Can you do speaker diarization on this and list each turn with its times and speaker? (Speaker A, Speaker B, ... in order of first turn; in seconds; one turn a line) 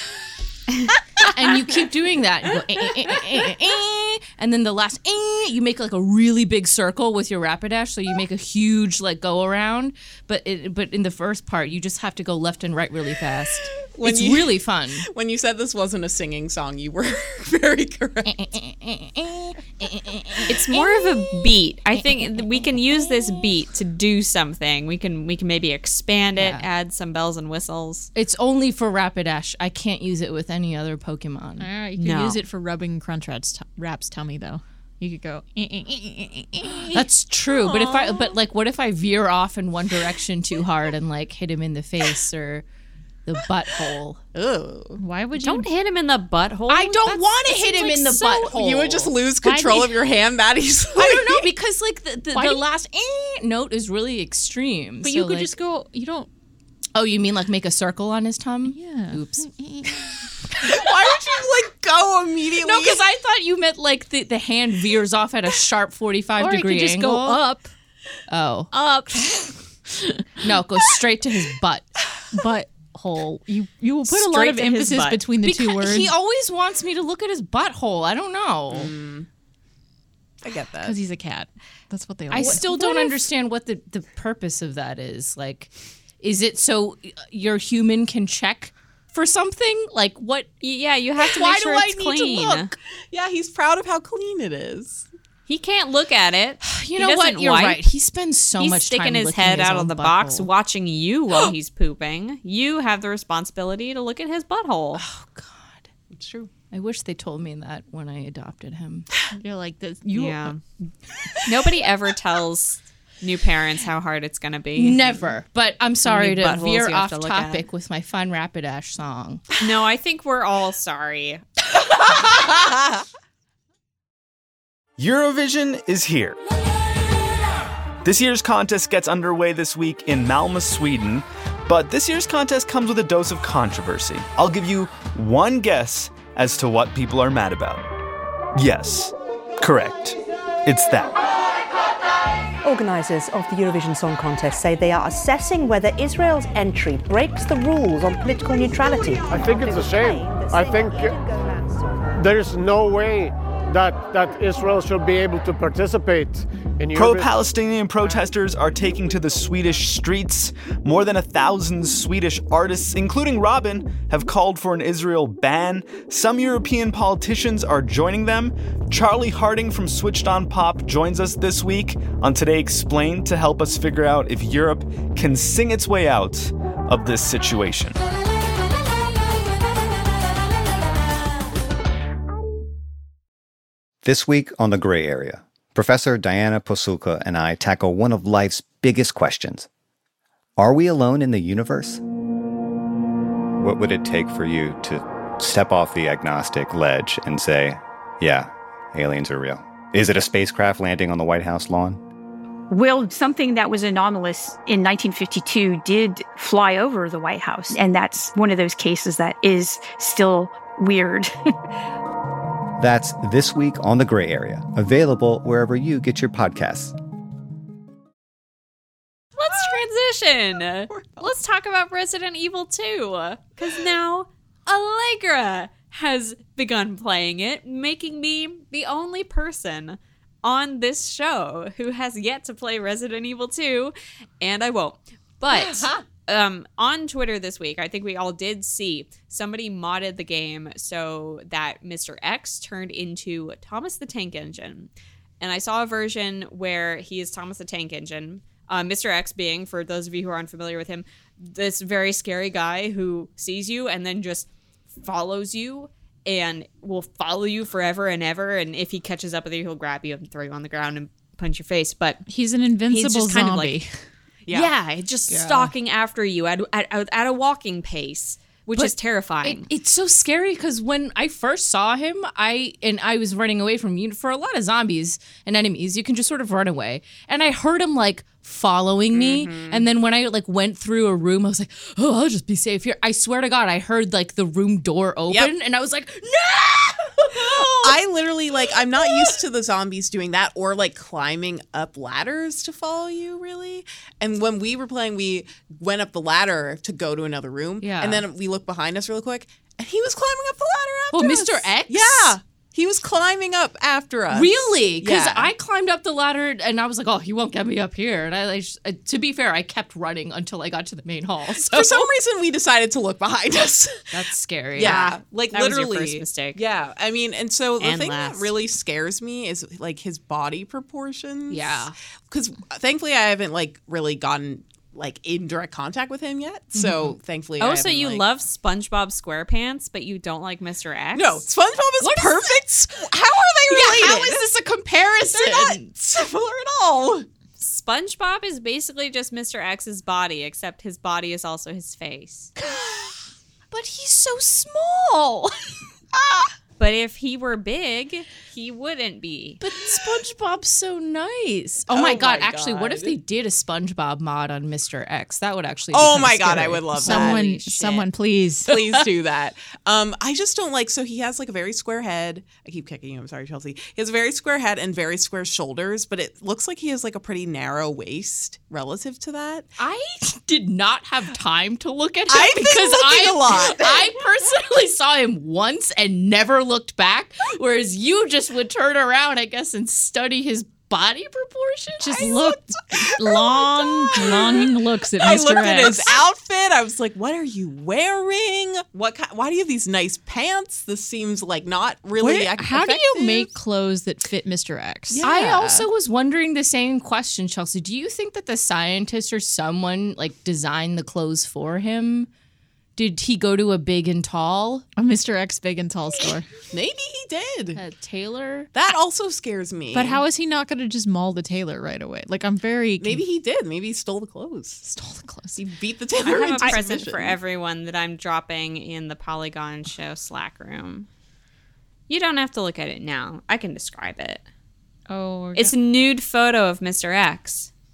Speaker A: 1.2-15.1
Speaker B: 13.9-18.5
Speaker A: 18.2-20.7
Speaker C: 20.5-28.1
Speaker A: 26.4-26.6
Speaker A: 28.1-31.7
Speaker D: 31.6-37.0
Speaker C: 32.0-32.4
Speaker A: 36.9-42.6
Speaker B: 37.6-38.2
Speaker A: 43.2-44.2
Speaker B: 44.3-45.0
Speaker D: 45.0-45.7
Speaker C: 45.3-48.5
Speaker A: 46.7-49.1
Speaker B: 48.4-51.5
Speaker D: 49.4-49.9
Speaker A: 51.0-55.5
Speaker D: 52.3-52.6
Speaker D: 55.0-56.3
Speaker A: 56.9-59.5
Speaker D: 58.7-60.1
Speaker B: 60.5-63.0
Speaker A: 62.6-67.4
Speaker D: 66.4-67.7
Speaker A: 68.3-68.7
Speaker D: 68.7-70.3
Speaker A: 70.4-71.9
Speaker D: 72.3-76.1
Speaker C: 74.1-75.2
Speaker A: 75.4-78.9
Speaker B: 78.7-79.3
Speaker B: 80.4-81.0
Speaker D: 80.8-83.2
Speaker A: 82.3-90.5
Speaker C: 90.6-92.7
Speaker A: 91.2-92.8
Speaker B: 93.1-95.1
Speaker C: 95.5-97.8
Speaker A: 96.6-100.5
Speaker C: 98.6-105.0
Speaker A: 105.0-105.9
Speaker B: 106.1-106.5
Speaker A: 106.7-109.1
Speaker D: 109.3-110.6
Speaker C: 110.1-110.6
Speaker C: 111.4-115.0
Speaker A: 114.8-119.4
Speaker C: 116.0-117.7
Speaker C: 119.6-121.4
Speaker B: 122.4-122.7
Speaker E: 125.0-126.4
Speaker E: 128.0-137.8
Speaker E: 138.6-141.2
Speaker F: 142.6-152.2
Speaker G: 149.3-151.2
Speaker G: 152.2-157.3
Speaker E: 156.9-178.0
Speaker H: 184.0-189.7
Speaker H: 190.6-192.0
Speaker H: 193.6-202.0
Speaker I: 202.7-211.5
Speaker H: 212.8-216.9
Speaker C: 219.4-262.2
Speaker B: 220.9-221.3
Speaker D: 262.3-264.0
Speaker C: 262.9-263.8
Speaker C: 264.5-269.7
Speaker A: 265.3-265.6
Speaker A: 268.8-288.0
Speaker B: 279.1-279.9
Speaker B: 287.3-305.5
Speaker A: 289.0-289.4
Speaker A: 297.8-298.2
Speaker A: 301.1-302.4
Speaker A: 304.3-312.1
Speaker B: 311.5-314.1
Speaker A: 314.1-315.0
Speaker B: 314.8-328.2
Speaker C: 314.8-316.6
Speaker C: 317.8-318.5
Speaker A: 321.5-321.9
Speaker C: 327.6-331.4
Speaker B: 331.1-334.4
Speaker A: 332.0-332.6
Speaker A: 333.7-335.9
Speaker B: 335.3-337.3
Speaker C: 337.6-342.5
Speaker A: 342.6-343.1
Speaker A: 343.7-345.8
Speaker B: 346.1-346.5
Speaker C: 346.8-349.6
Speaker A: 349.6-357.0
Speaker B: 351.9-353.2
Speaker B: 355.9-357.4
Speaker D: 357.0-358.8
Speaker C: 357.0-358.1
Speaker B: 358.6-369.7
Speaker A: 369.8-382.4
Speaker B: 372.3-374.2
Speaker D: 382.0-386.2
Speaker B: 382.2-393.5
Speaker D: 392.2-395.9
Speaker B: 395.1-395.5
Speaker A: 395.2-402.3
Speaker A: 402.9-404.9
Speaker D: 405.0-406.5
Speaker B: 406.7-407.8
Speaker A: 407.8-408.7
Speaker B: 408.7-410.2
Speaker D: 409.9-413.2
Speaker B: 413.0-414.8
Speaker D: 414.8-415.6
Speaker B: 415.6-417.4
Speaker C: 416.2-421.1
Speaker C: 422.1-424.4
Speaker D: 425.1-425.7
Speaker C: 425.5-427.7